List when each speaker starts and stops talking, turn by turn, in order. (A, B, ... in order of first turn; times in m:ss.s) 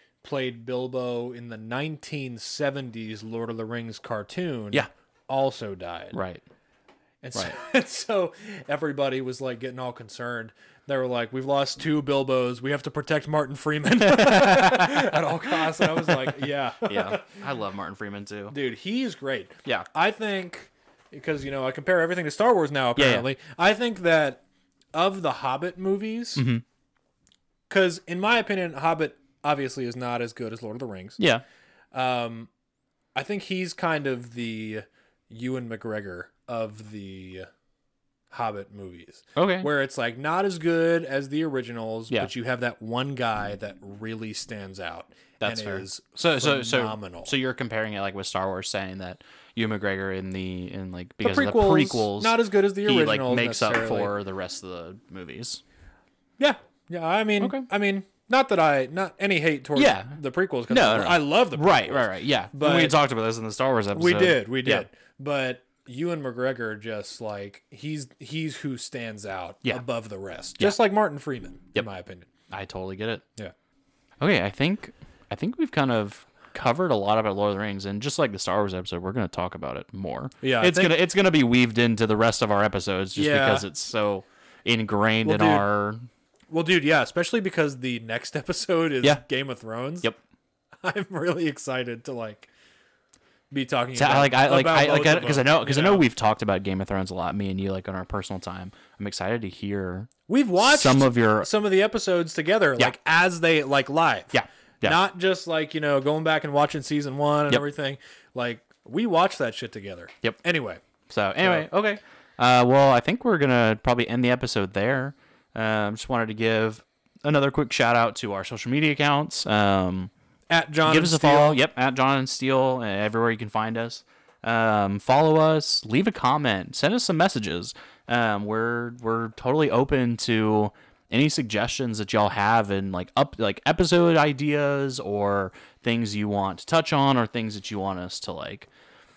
0:00.2-0:06.2 A
0:06.1-0:06.4 B
0:07.2-0:17.4 A
0:14.0-0:18.6 B
0:18.5-0:24.4 A
0:23.0-0:23.3 B
0:24.9-0:26.4 A
0:26.4-0:26.6 B
0:27.7-0:31.2 A
0:31.9-0:32.5 A
0:33.1-0:37.5 A
0:38.3-0:47.3 A
0:39.3-0:39.7 B
0:45.4-0:55.6 B
0:51.2-0:54.1 A
0:56.4-1:03.0 A
0:57.4-0:57.7 B
0:59.7-1:00.2 B
1:00.7-1:04.8 B
1:03.9-1:12.3 A
1:12.5-1:13.2 B
1:14.2-1:26.1 B
1:20.4-1:20.9 A
1:23.1-1:23.6 A
1:25.2-1:25.6 A
1:26.5-1:30.1 A
1:30.8-1:32.5 A
1:33.5-1:36.0 A
1:34.0-1:41.5 B
1:40.3-1:50.8 A
1:44.3-1:45.0 B
1:51.1-2:00.1 B
2:00.5-2:01.6 A
2:00.8-2:18.7 B